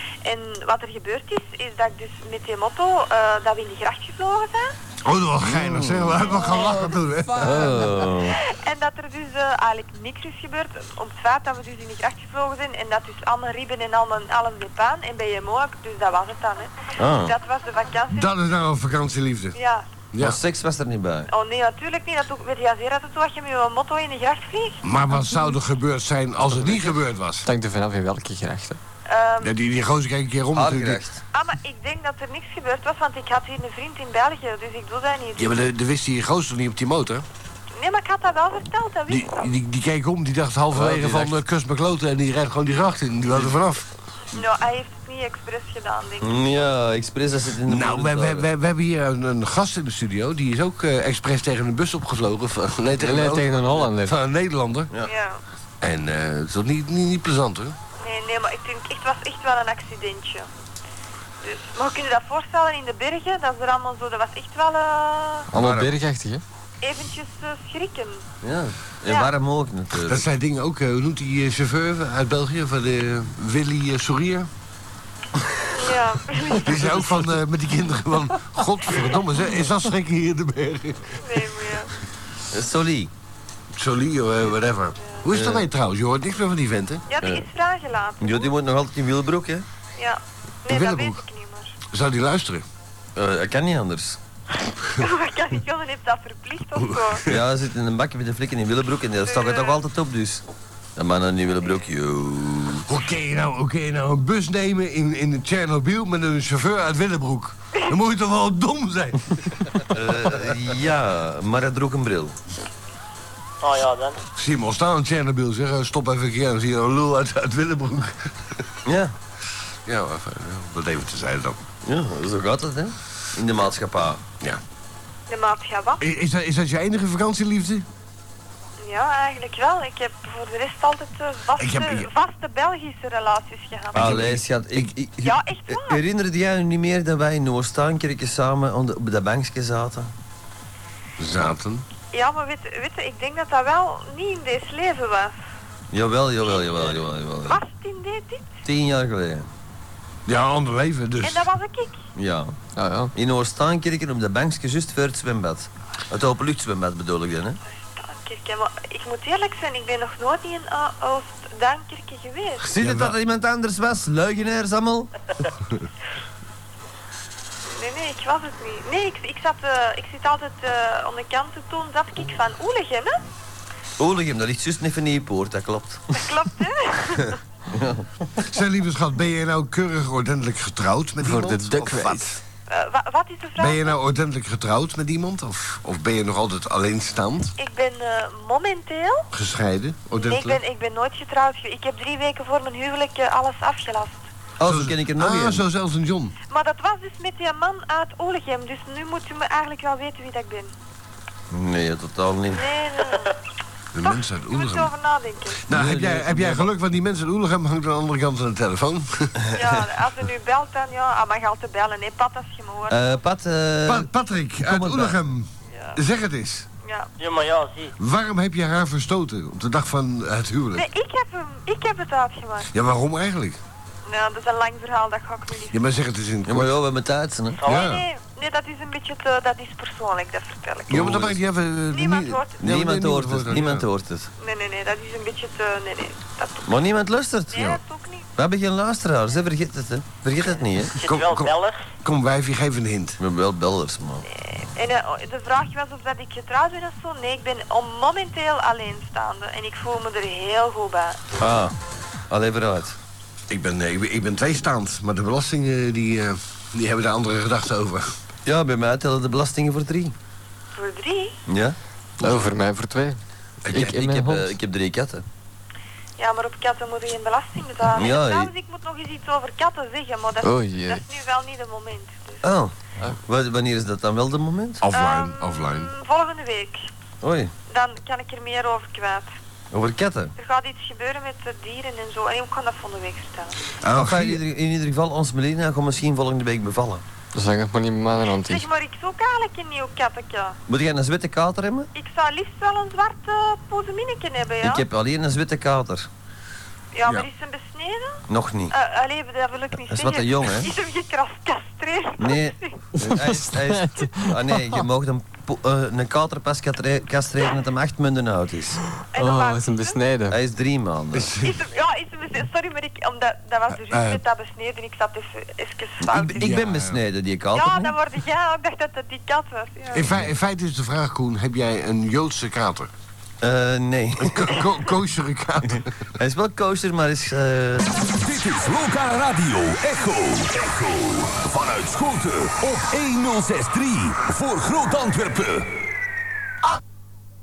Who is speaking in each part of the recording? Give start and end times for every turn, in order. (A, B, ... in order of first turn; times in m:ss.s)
0:00.2-0:04.8 A
0:05.0-0:07.9 B
0:05.4-0:06.3 C
0:07.4-0:08.4 C
0:08.3-0:18.3 A
0:17.0-0:17.3 C
0:18.1-0:19.6 B
0:19.6-0:19.8 A
0:20.1-0:20.4 B
0:20.2-0:21.3 C
0:21.3-0:24.8 A
0:24.8-0:27.5 B
0:27.4-0:28.8 D
0:29.1-0:29.5 A
0:29.4-0:31.0 B
0:30.6-0:31.2 C
0:31.3-0:35.6 A
0:35.4-0:37.2 B
0:37.8-0:39.5 A
0:39.1-0:43.9 B
0:40.7-0:41.3 C
0:44.3-0:46.3 A
0:46.2-0:48.5 C
0:47.6-0:54.9 B
0:53.0-0:54.2 D
0:55.0-0:55.4 A
0:55.8-0:57.8 B
0:58.0-1:00.5 A
1:01.4-1:05.5 A
1:05.5-1:06.4 D
1:05.5-1:05.9 B
1:06.8-1:08.2 A
1:08.4-1:10.2 C
1:10.0-1:14.5 B
1:15.7-1:17.0 A
1:16.6-1:21.5 B
1:21.2-1:21.9 A
1:22.5-1:23.1 C
1:23.7-1:27.0 B
1:25.3-1:25.6 C
1:27.1-1:28.6 A
1:28.2-1:29.6 C
1:30.0-1:31.8 A
1:30.7-1:31.2 B
1:31.9-1:32.6 B
1:33.2-1:34.2 C
1:34.9-1:37.2 A
1:36.8-1:37.4 B
1:37.3-1:40.4 C
1:39.2-1:39.8 A
1:41.0-1:42.9 C
1:42.9-1:50.1 B
1:49.9-1:52.4 C
1:53.6-1:54.2 E
1:54.4-1:58.6 B
1:58.8-1:59.1 C
1:59.9-2:01.6 B
2:01.8-2:04.2 C
2:05.3-2:06.0 A
2:06.0-2:07.9 B
2:08.8-2:14.2 A
2:11.6-2:12.1 B
2:13.9-2:14.9 B
2:14.0-2:20.1 C
2:15.2-2:16.0 A
2:21.2-2:21.9 B
2:22.1-2:25.4 A
2:25.9-2:27.6 C
2:27.5-2:28.5 A
2:28.6-2:29.5 C
2:30.3-2:31.5 B
2:31.2-2:32.0 A
2:32.2-2:32.6 C
2:32.8-2:33.1 D
2:33.2-2:37.6 C
2:37.7-2:42.6 A
2:42.6-2:45.3 C
2:42.8-2:43.2 B
2:47.7-2:53.2 A
2:54.0-2:56.2 C
2:56.1-2:57.4 A
2:57.7-2:58.1 C
2:58.4-3:02.3 B
3:01.2-3:02.4 D
3:02.7-3:03.9 A
3:03.6-3:07.5 B
3:07.6-3:09.3 A
3:09.3-3:10.6 B
3:10.2-3:14.3 A
3:14.6-3:15.6 C
3:14.6-3:16.4 B
3:16.5-3:20.7 A
3:21.5-3:22.6 C
3:22.5-3:23.3 A
3:23.9-3:24.9 B
3:24.0-3:25.6 A
3:25.7-3:29.4 B
3:25.7-3:26.7 C
3:29.4-3:29.8 C
3:29.5-3:33.2 A
3:32.9-3:34.1 C
3:33.9-3:36.7 B
3:34.6-3:35.2 C
3:35.7-3:36.0 A
3:36.8-3:37.1 A
3:37.2-3:37.9 E
3:38.0-3:40.9 B
3:40.8-3:42.7 A
3:42.7-3:43.6 B
3:44.1-3:45.8 A
3:45.7-3:46.8 B
3:46.5-3:47.6 C
3:47.6-3:48.1 B
3:47.6-3:51.3 A
3:50.9-3:53.9 B
3:51.9-3:52.6 A
3:52.6-3:54.3 C
3:54.4-3:56.7 A
3:56.7-3:57.6 C
3:57.5-3:58.3 A
3:57.5-3:57.8 B
3:58.4-4:01.0 C
4:01.0-4:01.8 E
4:01.0-4:03.2 B
4:03.2-4:04.2 C
4:04.2-4:11.2 A
4:11.4-4:11.8 C
4:12.3-4:13.0 C
4:13.5-4:18.1 B
4:18.4-4:20.1 C
4:20.8-4:21.4 A
4:21.5-4:21.8 C
4:22.2-4:24.6 D
4:23.7-4:24.0 B
4:23.7-4:25.2 C
4:26.2-4:32.5 A
4:28.0-4:28.5 C
4:30.4-4:31.0 D
4:32.4-4:32.7 C
4:33.3-4:34.8 C
4:34.8-4:35.9 B
4:34.9-4:36.9 A
4:37.2-4:37.5 C
4:37.7-4:39.3 A
4:39.7-4:40.3 C
4:40.4-4:43.6 A
4:43.8-4:44.4 B
4:43.9-4:47.0 C
4:47.3-4:48.6 D
4:48.4-4:50.6 A
4:50.7-4:51.9 C
4:51.9-4:54.8 A
4:54.6-4:56.1 C
4:56.9-5:02.8 A
4:58.3-4:58.8 C
4:59.9-5:00.7 C
5:02.2-5:08.8 C
5:03.0-5:04.8 D
5:09.1-5:10.0 A
5:09.2-5:10.4 D
5:10.3-5:11.4 C
5:11.1-5:11.6 B
5:11.4-5:16.5 A
5:13.7-5:14.2 B
5:16.1-5:17.9 C
5:16.4-5:17.0 B
5:17.5-5:20.1 A
5:19.9-5:22.9 B
5:23.4-5:24.6 C
5:24.2-5:25.9 B
5:25.8-5:28.0 C
5:28.1-5:35.7 F